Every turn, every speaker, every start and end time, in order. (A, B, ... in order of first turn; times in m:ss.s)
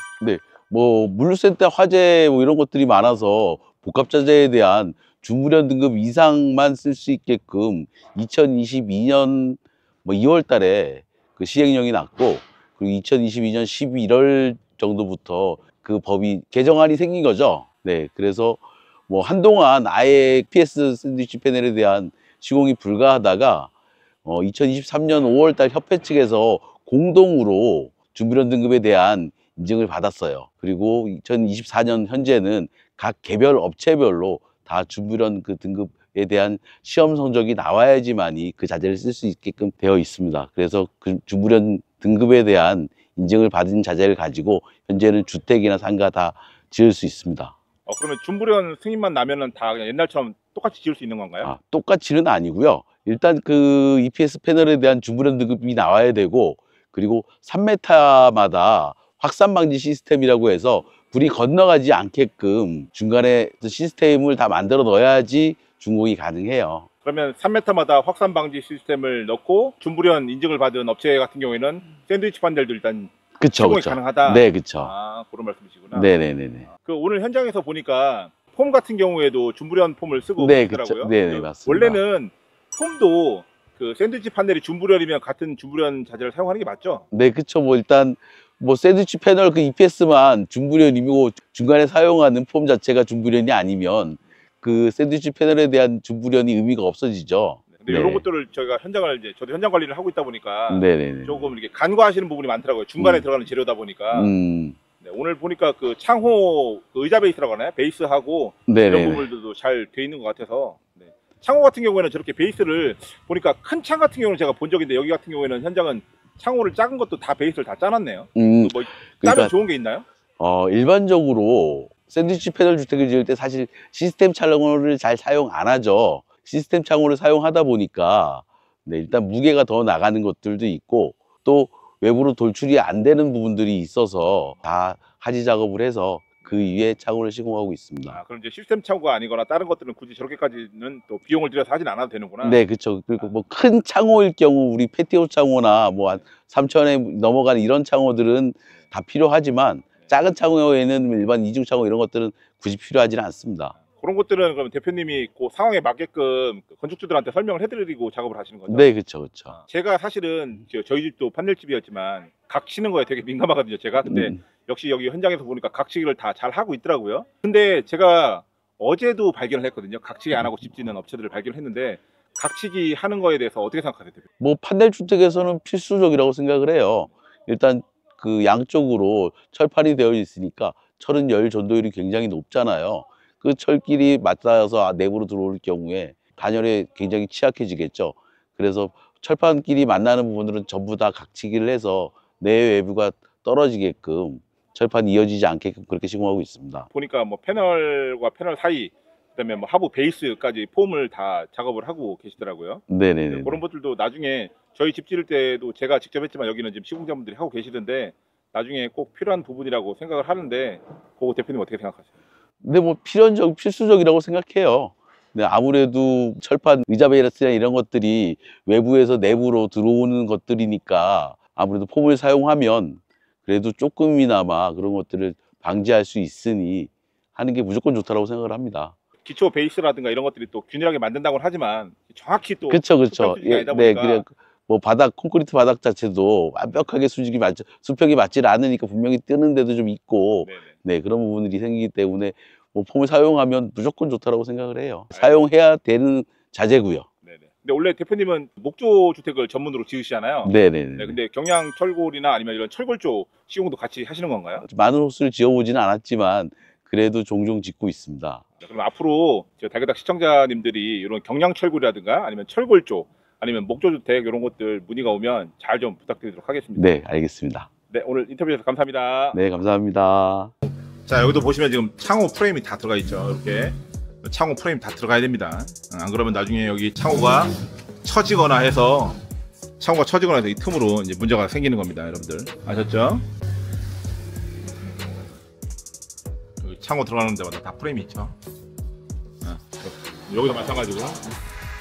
0:00.2-0:23.7 A
0:24.2-0:47.6 A
0:47.9-0:51.5 B
0:51.4-1:06.9 A
1:07.0-1:16.1 B
1:13.4-1:14.9 A
1:15.9-1:16.7 A
1:16.8-1:27.1 B
1:20.4-1:22.0 A
1:27.1-1:38.2 A
1:37.7-1:44.3 B
1:40.7-1:41.5 A
1:43.0-1:43.3 A
1:44.1-1:44.8 A
1:45.0-2:00.0 B
1:48.7-1:49.3 A
1:58.4-1:59.5 A
2:00.4-2:18.2 A
2:16.5-2:16.7 B
2:18.1-2:22.6 B
2:22.4-2:33.8 A
2:33.8-2:38.9 B
2:38.7-2:39.6 A
2:39.5-2:54.3 B
2:44.1-2:44.4 A
2:54.4-3:16.9 A
3:16.9-3:32.1 B
3:22.9-3:23.6 A
3:32.6-3:49.0 A
3:49.2-3:54.2 B
3:52.7-4:07.1 A
4:00.4-4:00.7 B
4:05.1-4:05.5 B
4:07.2-4:14.7 B
4:10.4-4:11.2 A
4:14.7-4:18.4 A
4:18.6-4:26.9 B
4:26.8-4:27.7 A
4:27.9-4:29.4 B
4:29.3-4:30.5 A
4:31.1-4:39.2 B
4:39.8-4:43.2 B
4:46.6-4:48.4 B
4:49.4-4:51.2 B